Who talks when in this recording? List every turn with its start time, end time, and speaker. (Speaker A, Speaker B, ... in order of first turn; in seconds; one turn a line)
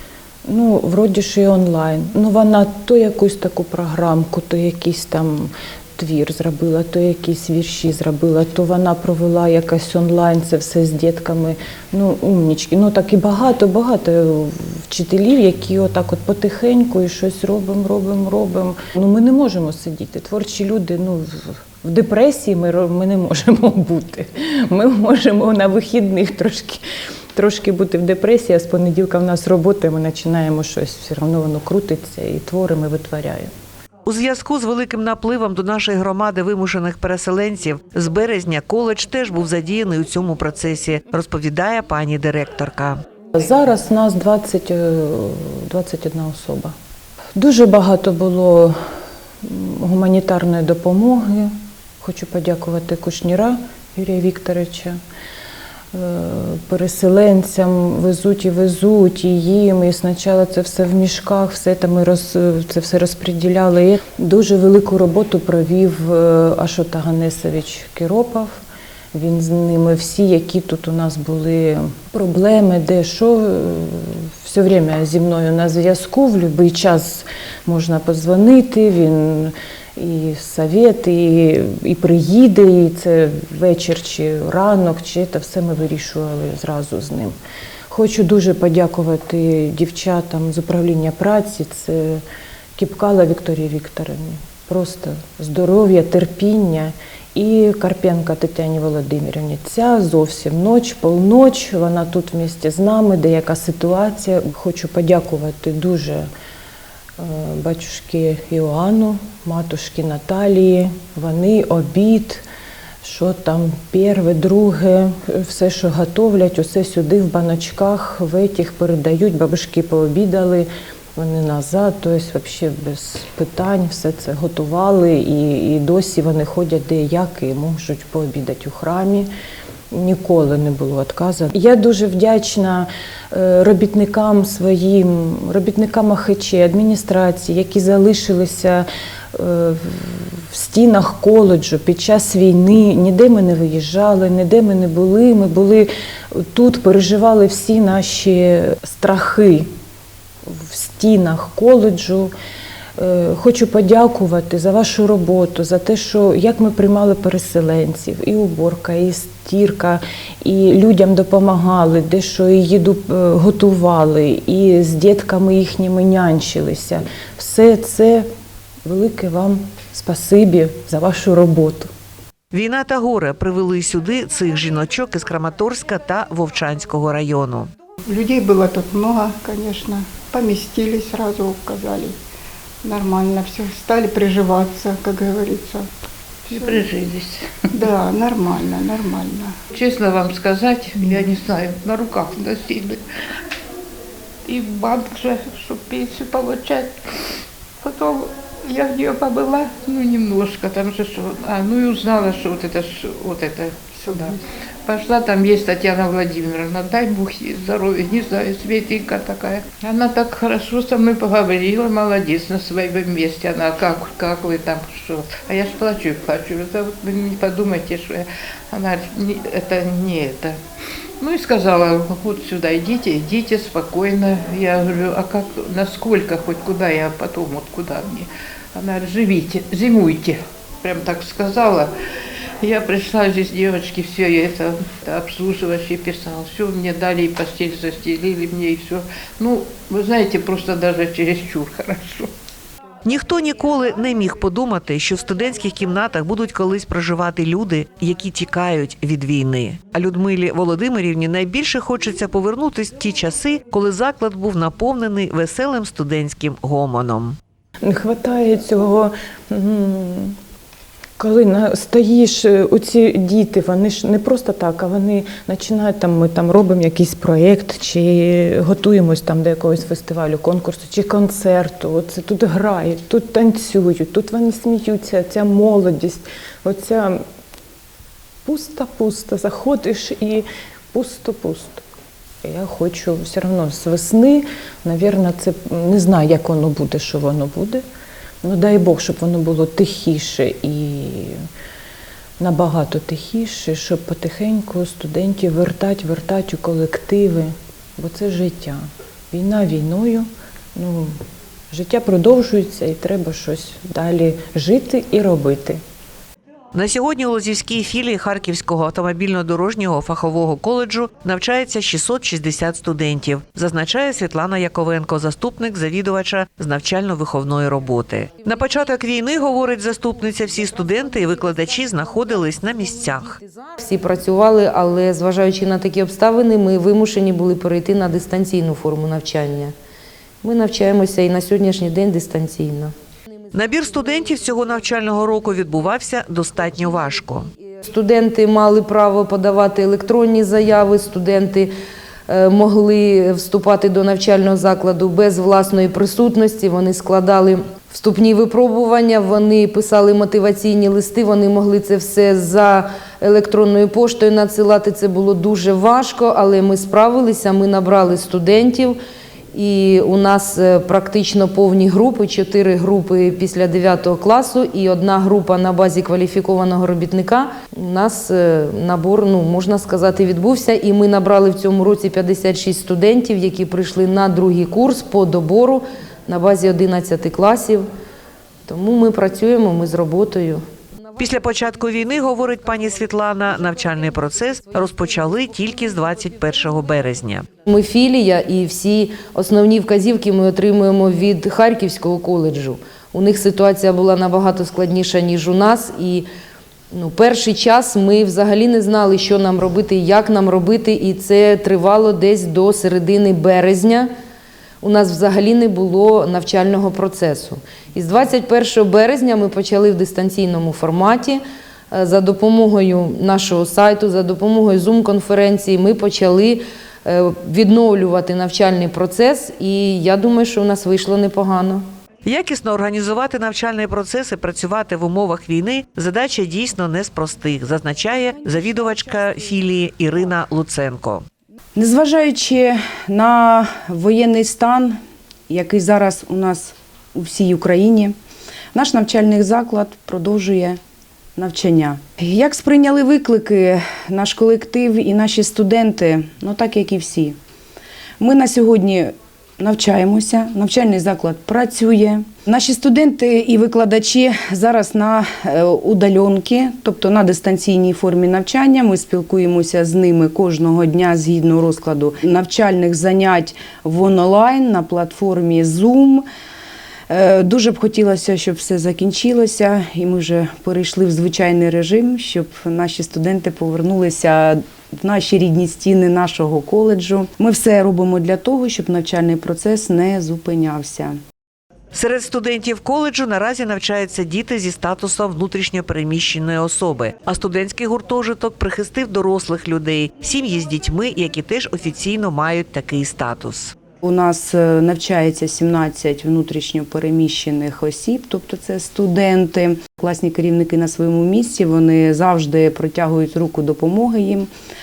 Speaker A: 0.5-26.8
Speaker A: 27.3-33.5
Speaker B: 34.0-43.0
Speaker A: 43.3-46.7
Speaker A: 47.3-48.8
Speaker A: 49.4-55.0
Speaker A: 55.9-68.6
Speaker A: 69.1-87.3
Speaker A: 87.9-92.2
Speaker A: 92.8-106.3
Speaker A: 107.2-112.5
Speaker A: 113.0-129.3
Speaker A: 129.9-149.7
Speaker A: 150.5-152.3
Speaker A: 153.0-168.3
Speaker A: 168.8-171.9
Speaker B: 172.5-177.7
Speaker C: 178.1-182.2
Speaker C: 182.8-185.9
Speaker C: 186.5-186.8
Speaker D: 186.5-187.4
Speaker C: 187.7-189.5
Speaker D: 189.7-193.0
Speaker D: 194.4-196.9
Speaker D: 197.8-204.3
Speaker C: 203.9-204.4
Speaker D: 204.8-220.6
Speaker D: 221.2-231.9
Speaker D: 232.6-242.3
Speaker B: 243.1-257.4
Speaker A: 257.8-260.4
Speaker A: 261.2-277.2
Speaker A: 278.4-281.8
Speaker A: 282.4-287.8
Speaker A: 288.4-291.4
Speaker A: 292.4-301.2
Speaker A: 301.7-305.8
Speaker B: 306.7-323.4
Speaker E: 323.8-329.7
Speaker E: 330.4-332.9
Speaker B: 333.5-337.5
Speaker E: 337.8-341.7
Speaker E: 342.3-359.0
Speaker E: 359.5-377.9
Speaker E: 378.7-380.6
Speaker B: 381.1-387.4
Speaker E: 387.6-396.3
Speaker E: 396.9-404.1
Speaker E: 404.8-421.8
Speaker B: 422.2-431.2
Speaker F: 431.8-438.1
Speaker F: 438.7-440.8
Speaker F: 441.4-447.4
Speaker F: 448.2-466.2
Speaker F: 467.1-481.2
Speaker B: 481.9-493.8
Speaker F: 494.0-504.5